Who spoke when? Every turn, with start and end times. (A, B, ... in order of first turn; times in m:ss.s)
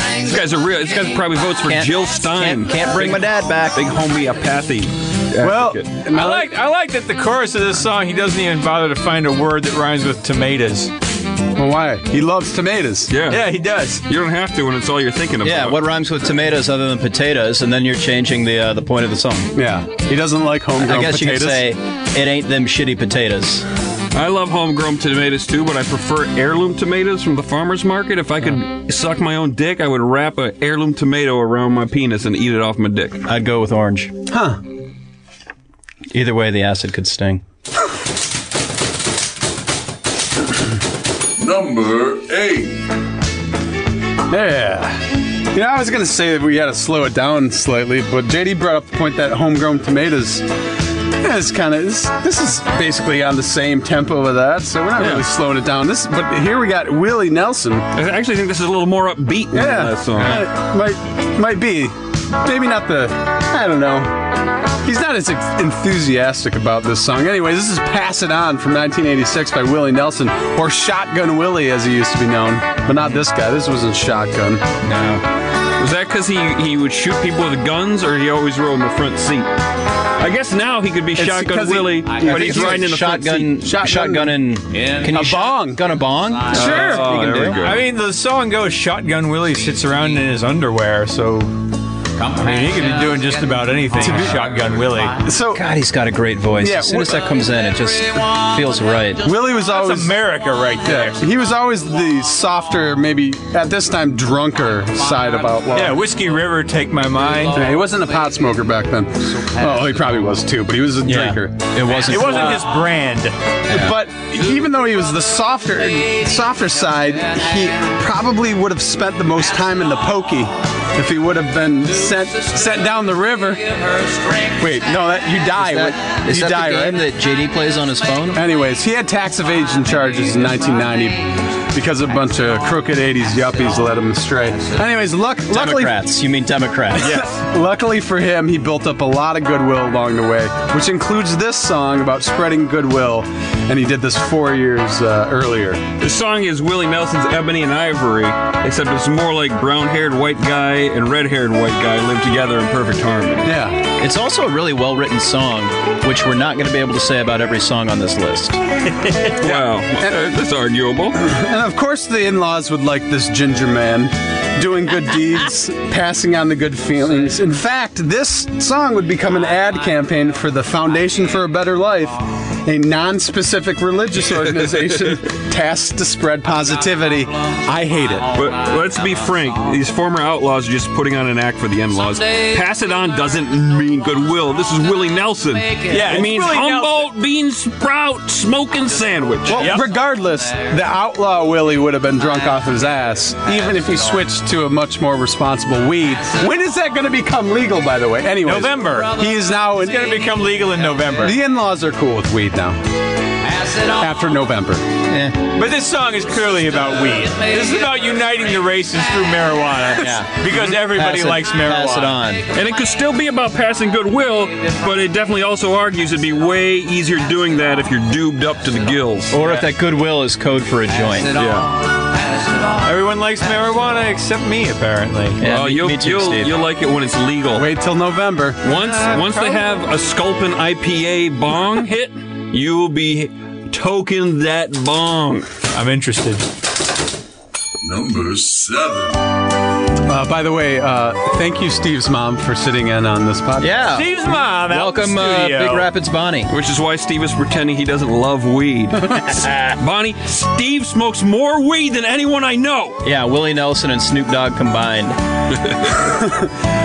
0:00.2-0:05.8 A
0:01.6-0:03.8 B
0:05.4-0:06.5 C
0:06.1-0:10.9 D
0:11.6-0:13.1 C
0:13.1-0:13.5 A
0:13.3-0:14.0 D
0:14.1-0:15.8 A
0:15.4-0:19.5 B
0:19.6-0:21.6 C
0:20.8-0:23.6 B
0:24.1-0:33.2 A
0:33.2-0:34.1 B
0:34.3-0:34.6 C
0:36.1-0:37.4 B
0:41.4-0:42.9 E
0:44.3-0:50.5 C
0:51.2-0:57.9 C
0:55.0-0:55.3 A
0:57.9-1:00.5 A
0:59.5-1:14.6 C
1:14.8-1:15.2 B
1:15.8-1:19.5 A
1:20.2-1:23.5 A
1:21.2-1:24.4 C
1:22.2-1:27.6 B
1:25.0-1:25.9 C
1:26.5-1:27.8 A
1:26.6-1:27.0 D
1:26.6-1:27.0 C
1:27.6-1:31.5 D
1:32.2-1:35.2 D
1:34.0-1:34.5 C
1:35.2-1:35.6 C
1:35.5-1:39.3 B
1:36.6-1:37.2 C
1:39.2-1:40.1 C
1:39.6-1:41.2 D
1:40.8-1:46.0 C
1:45.7-1:47.6 D
1:47.6-1:52.6 C
1:51.0-1:52.6 B
1:52.1-1:53.4 D
1:53.7-1:54.0 B
1:53.7-2:03.7 C
2:04.5-2:07.0 C
2:05.6-2:08.4 B
2:08.3-2:16.0 C
2:15.5-2:17.2 B
2:17.0-2:25.9 C
2:26.0-2:33.5 A
2:33.4-2:33.8 C
2:33.8-2:38.6 B
2:39.4-2:41.2 A
2:39.4-2:40.2 C
2:41.2-2:58.3 C
2:54.3-2:55.2 A
2:58.3-3:09.8 A
3:05.9-3:07.0 D
3:09.5-3:20.1 C
3:09.5-3:09.8 D
3:18.4-3:19.2 D
3:19.8-3:21.4 D
3:21.2-3:22.8 C
3:23.8-3:24.9 C
3:25.1-3:25.4 B
3:25.5-3:32.2 D
3:30.0-3:32.5 B
3:32.5-3:39.4 A
3:39.3-3:41.4 B
3:41.4-3:41.7 A
3:42.8-3:45.4 D
3:45.4-3:46.5 B
3:45.4-3:47.7 A
3:47.6-3:48.6 C
3:48.6-3:55.5 A
3:49.1-3:49.6 D
3:55.7-3:56.4 D
3:57.8-3:59.2 E
4:00.1-4:03.8 C
4:03.6-4:06.5 B
4:03.9-4:05.9 D
4:06.5-4:13.0 A
4:13.0-4:15.2 B
4:15.7-4:15.9 A
4:16.1-4:16.5 C